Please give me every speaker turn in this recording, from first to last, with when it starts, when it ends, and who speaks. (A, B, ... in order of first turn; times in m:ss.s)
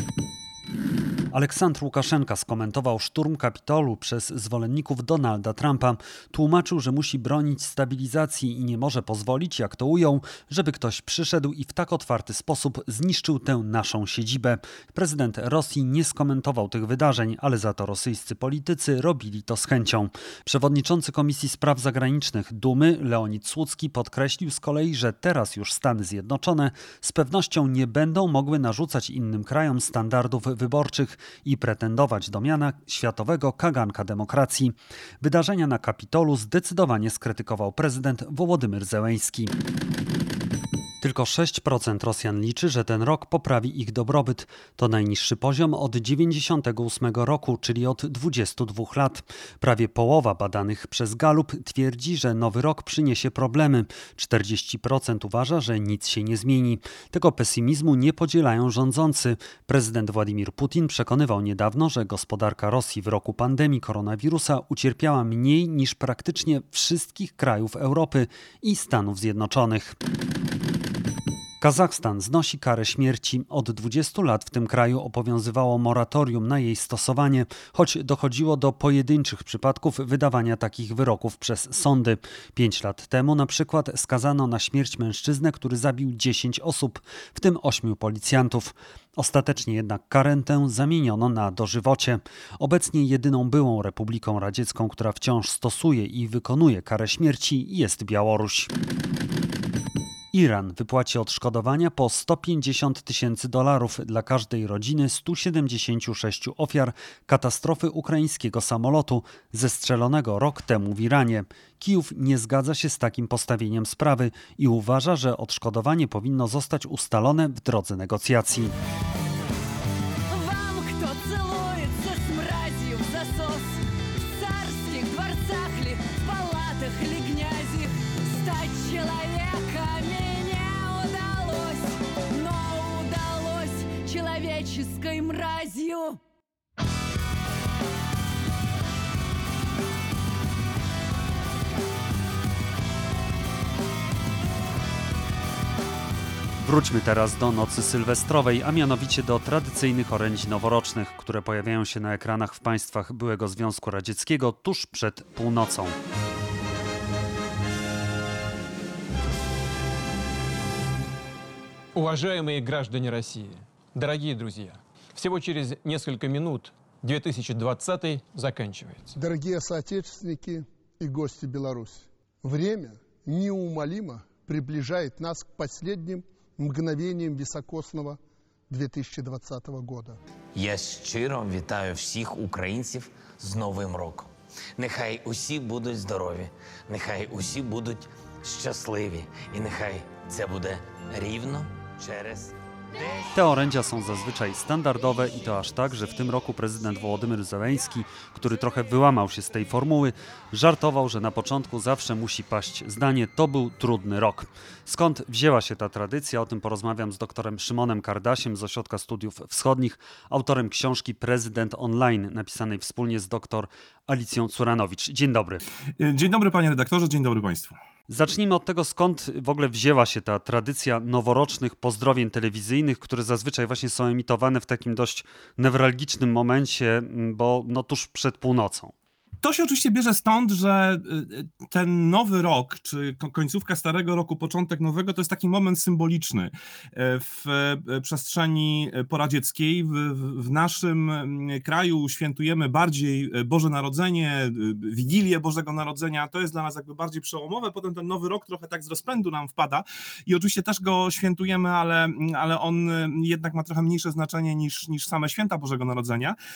0:01.3-0:39.5 A
0:41.0-1:10.0 A
1:11.6-1:38.7 A
1:40.3-1:58.7 A
2:00.3-2:16.2 B
2:26.6-2:36.0 A
2:42.0-2:49.1 C
2:49.2-3:00.2 D
3:00.6-3:12.5 E
3:13.4-3:35.6 A
3:36.0-3:37.8 F
3:38.1-3:48.9 A
3:49.4-4:16.4 F